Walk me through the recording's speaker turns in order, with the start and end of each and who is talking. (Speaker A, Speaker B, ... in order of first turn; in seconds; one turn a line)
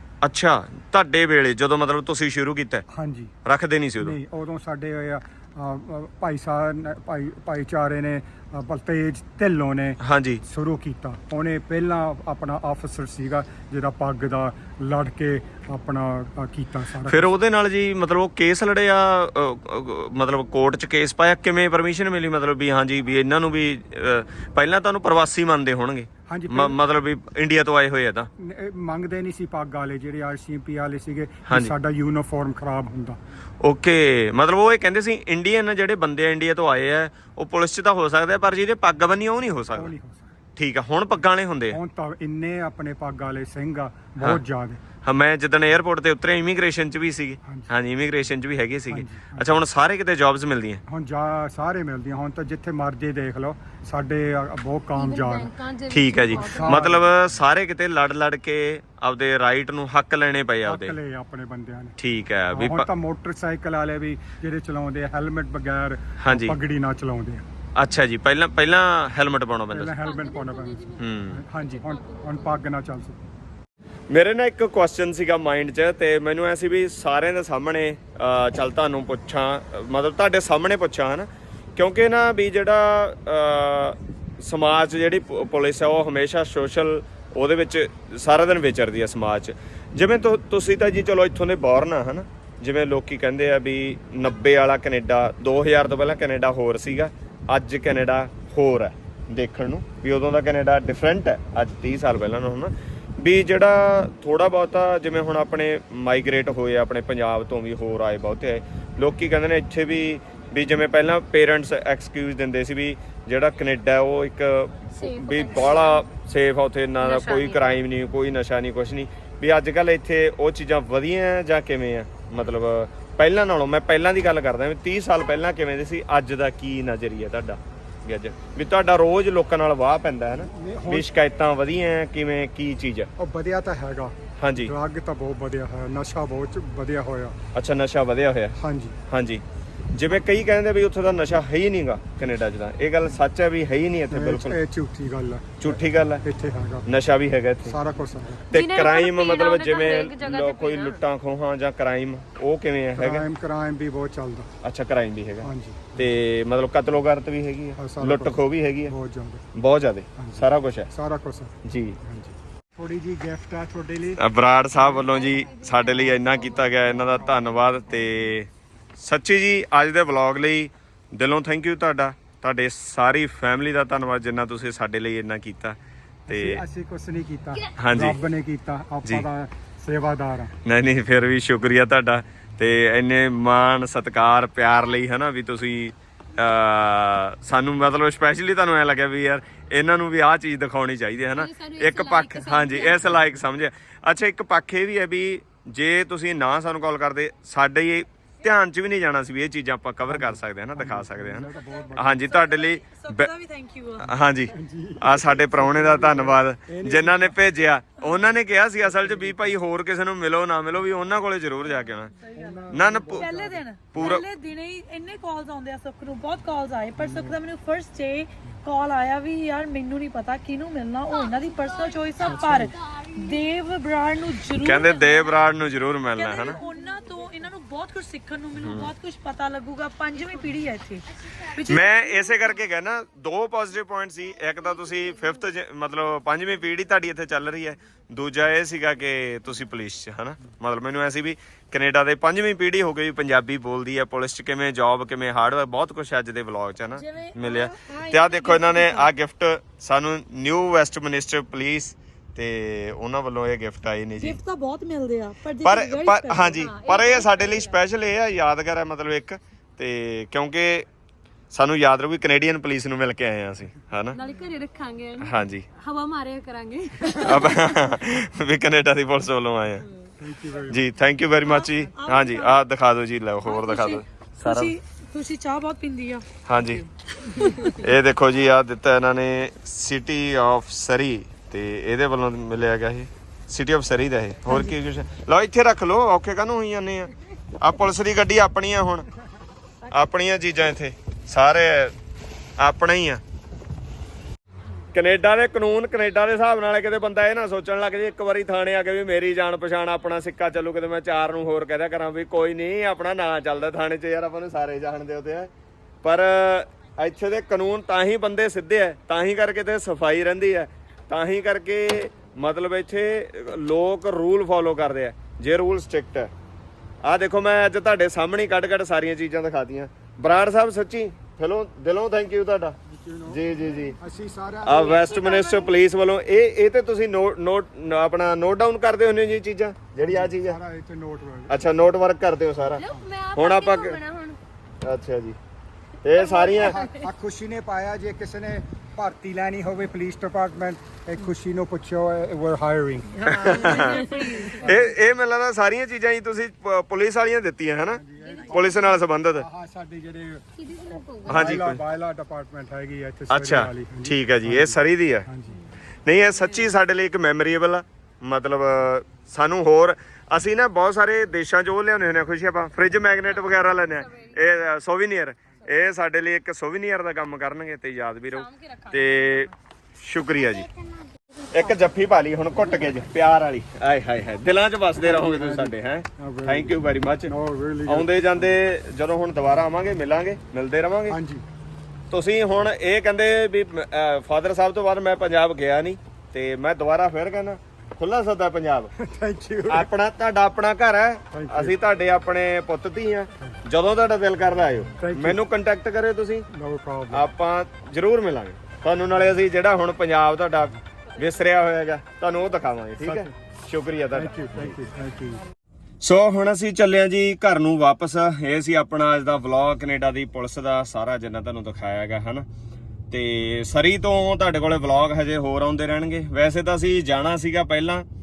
Speaker A: 0.2-2.8
Speaker B: 2.9-3.3
Speaker A: 3.4-4.2
Speaker B: 4.0-17.3
Speaker A: 10.0-10.4
Speaker A: 17.1-28.3
Speaker B: 26.3-26.8
Speaker B: 28.4-33.2
Speaker A: 31.5-31.7
Speaker A: 33.6-39.9
Speaker B: 39.7-40.3
Speaker A: 40.5-41.8
Speaker B: 41.7-44.8
Speaker A: 45.0-50.8
Speaker B: 47.4-47.7
Speaker B: 48.9-49.6
Speaker B: 50.9-55.5
Speaker C: 54.9-57.0
Speaker A: 55.9-61.0
Speaker B: 56.4-57.1
Speaker B: 60.6-62.0
Speaker A: 62.0-62.9
Speaker B: 62.5-67.5
Speaker A: 66.2-66.6
Speaker A: 67.8-69.9
Speaker B: 69.7-73.3
Speaker C: 70.0-72.6
Speaker A: 71.0-71.4
Speaker A: 74.1-133.1
Speaker C: 114.9-116.0
Speaker C: 117.0-117.8
Speaker B: 130.5-131.1
Speaker B: 133.2-137.4
Speaker A: 134.4-134.7
Speaker A: 137.5-138.6
Speaker B: 138.6-139.0
Speaker A: 139.1-144.6
Speaker B: 144.1-146.9
Speaker A: 145.6-146.2
Speaker A: 146.8-147.8
Speaker B: 147.7-148.5
Speaker A: 148.5-153.3
Speaker C: 148.5-151.0
Speaker B: 152.9-154.5
Speaker A: 154.6-158.9
Speaker B: 155.4-156.1
Speaker B: 157.8-159.4
Speaker A: 159.5-160.9
Speaker B: 160.2-164.2
Speaker A: 161.6-162.0
Speaker A: 164.2-175.8
Speaker C: 164.7-168.0
Speaker B: 176.3-180.5
Speaker A: 176.3-176.6
Speaker A: 177.7-178.2
Speaker A: 180.6-203.3
Speaker C: 191.3-193.1
Speaker B: 200.1-202.2
Speaker D: 202.0-204.1
Speaker A: 204.0-212.1
Speaker B: 204.5-207.3
Speaker B: 208.9-209.5
Speaker D: 212.2-225.3
Speaker B: 212.3-214.2
Speaker A: 212.7-214.2
Speaker B: 217.0-217.3
Speaker C: 221.1-223.5
Speaker B: 222.2-222.7
Speaker A: 224.6-226.6
Speaker D: 226.2-231.9
Speaker C: 226.5-227.4
Speaker A: 228.6-228.9
Speaker C: 231.2-232.5
Speaker A: 231.7-254.4
Speaker D: 246.9-249.1
Speaker D: 254.2-256.7
Speaker A: 255.6-260.9
Speaker C: 256.5-257.8
Speaker A: 261.5-264.2
Speaker C: 264.1-267.8
Speaker A: 265.2-265.7
Speaker A: 267.1-269.9
Speaker B: 270.2-270.8
Speaker A: 270.7-274.7
Speaker D: 271.4-272.6
Speaker D: 273.4-276.2
Speaker A: 276.4-276.8
Speaker D: 276.8-277.7
Speaker A: 277.4-289.1
Speaker A: 289.9-291.9
Speaker A: 292.6-293.2
Speaker A: 294.9-305.5
Speaker A: 306.0-316.3
Speaker A: 317.0-324.0
Speaker B: 322.9-325.4
Speaker A: 324.6-330.6
Speaker C: 325.2-325.6
Speaker B: 330.1-331.6
Speaker A: 331.5-334.0
Speaker C: 332.7-334.4
Speaker A: 334.8-335.4
Speaker A: 336.0-336.8
Speaker C: 336.1-337.0
Speaker B: 336.6-343.9
Speaker D: 343.1-344.8
Speaker A: 343.2-344.0
Speaker C: 343.8-344.5
Speaker B: 344.4-345.0
Speaker A: 344.6-349.5
Speaker B: 347.9-355.6
Speaker C: 350.6-351.6
Speaker A: 351.2-351.8
Speaker A: 353.3-355.3
Speaker A: 356.0-370.7
Speaker C: 356.4-356.7
Speaker C: 363.5-364.5
Speaker C: 368.3-369.5
Speaker C: 370.3-371.8
Speaker A: 371.5-381.2
Speaker B: 375.0-378.5
Speaker B: 381.1-381.4
Speaker A: 382.1-388.9
Speaker B: 389.0-389.9
Speaker A: 389.7-396.5
Speaker B: 391.3-391.7
Speaker B: 395.0-395.4
Speaker B: 396.5-397.3
Speaker A: 397.1-404.8
Speaker B: 403.0-403.3
Speaker B: 404.1-405.4
Speaker A: 406.0-412.5
Speaker A: 413.1-418.1